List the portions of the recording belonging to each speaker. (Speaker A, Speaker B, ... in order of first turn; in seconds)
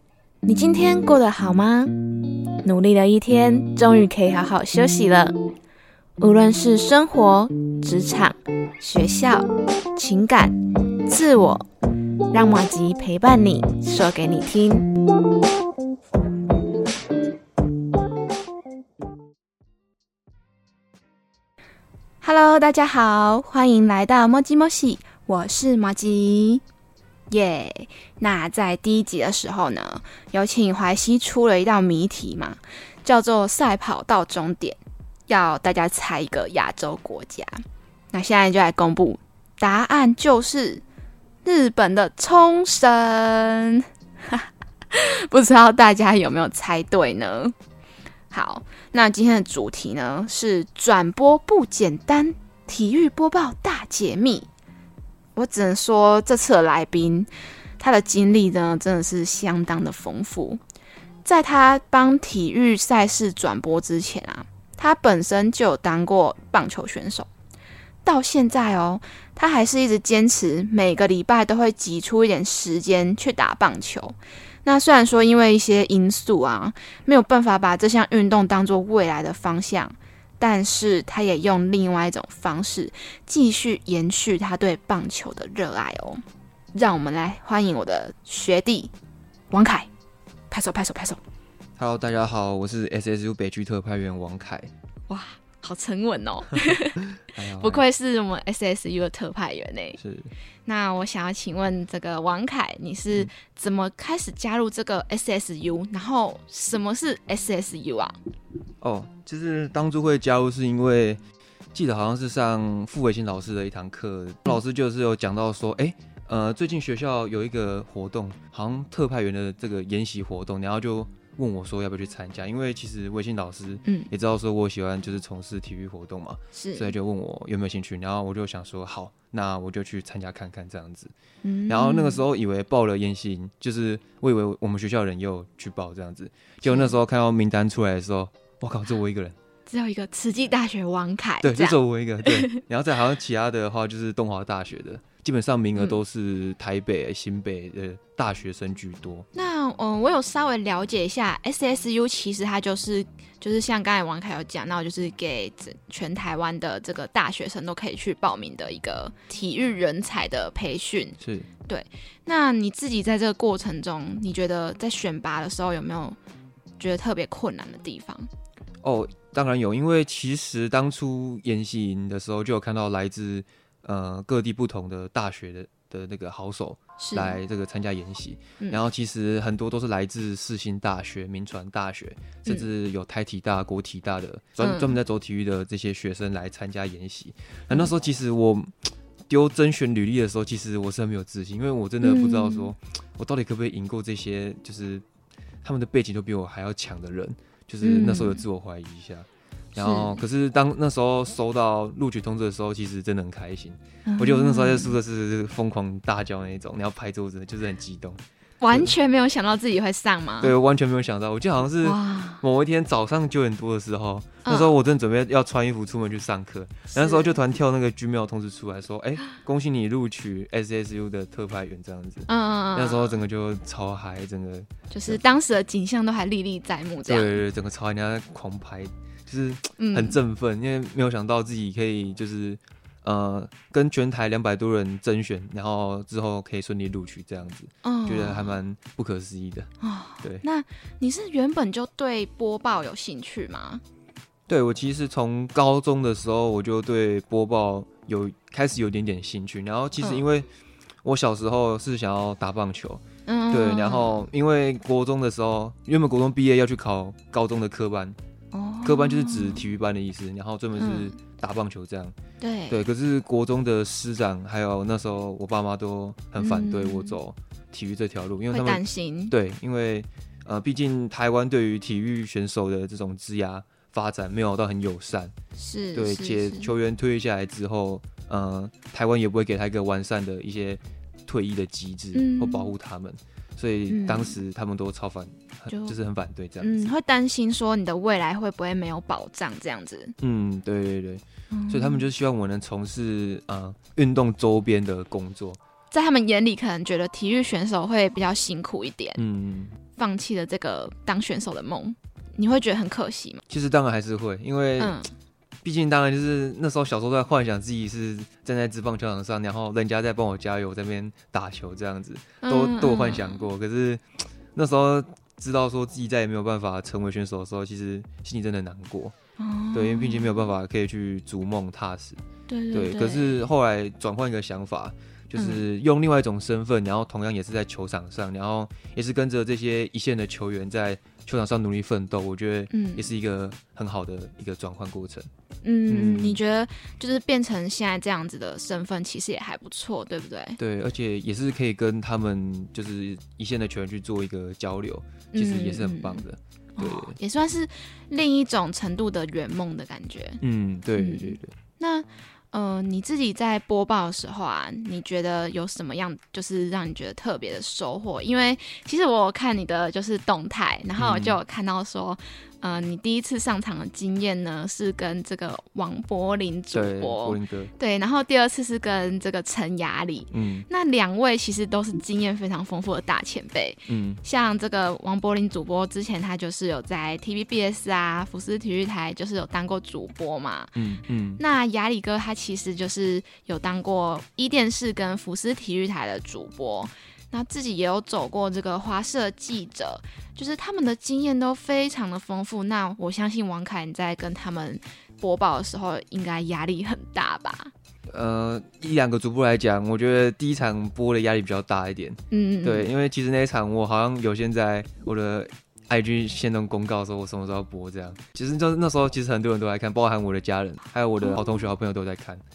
Speaker A: 0.4-1.9, 2.6-5.4, 6.2-11.7, 12.3-14.9, 22.2-26.6, 27.3-37.6, 38.1-40.8, 41.5-47.5, 48.3-54.5, 55.4-60.6, 61.2-67.3, 68.0-86.2, 86.8-88.9, 89.5-89.9, 90.5-91.2, 95.1-97.0, 97.6-100.0, 100.7-108.2, 126.5-126.9, 131.4-132.2, 136.6-136.9, 139.7-142.6, 149.3-161.2, 161.7-166.2, 166.8-168.3, 177.0-177.4, 184.6-184.9, 192.0-192.7, 197.8-198.4, 199.8-200.2, 204.1-205.0, 208.6-210.5, 211.8-212.4, 214.4-214.7, 216.9-217.3, 222.3-223.2, 224.9-227.4, 229.8-230.2, 237.8-238.6, 239.8-243.8, 250.0-250.3, 253.3-254.2, 258.5-259.6, 260.8-261.2, 262.4-262.8, 266.4-267.2, 268.5-269.3, 275.6-276.7, 282.1-282.7, 283.9-284.4, 285.7-286.0, 286.6-290.1, 291.5-292.1, 295.9-299.2, 300.0-303.4, 304.8-305.1, 312.4-313.4, 319.4-320.5, 322.5-323.4, 325.4-325.6, 332.7-333.1, 335.6-340.6, 345.3-346.2, 346.8-350.4, 351.0-380.7, 381.4-397.7, 402.3-402.9
Speaker B: 91.8-94.7, 97.3-97.8, 100.0-100.3, 108.8-111.2, 111.7-131.1, 131.7-139.4, 141.4-149.3, 161.2-161.5, 168.8-195.1, 195.6-208.2, 210.4-225.2, 227.1-239.7, 244.5-250.5, 251.0-258.2, 258.8-262.1, 262.7-275.3, 275.9-286.9, 290.2-295.6, 299.2-299.8, 303.5-305.0, 305.6-314.0, 314.5-319.1, 319.7-322.2, 322.7-335.3, 335.9-336.4, 340.6-347.2, 350.4-351.5, 361.0-361.4, 366.7-367.7, 370.3-370.7, 373.9-374.2, 380.8-381.4, 398.1-412.4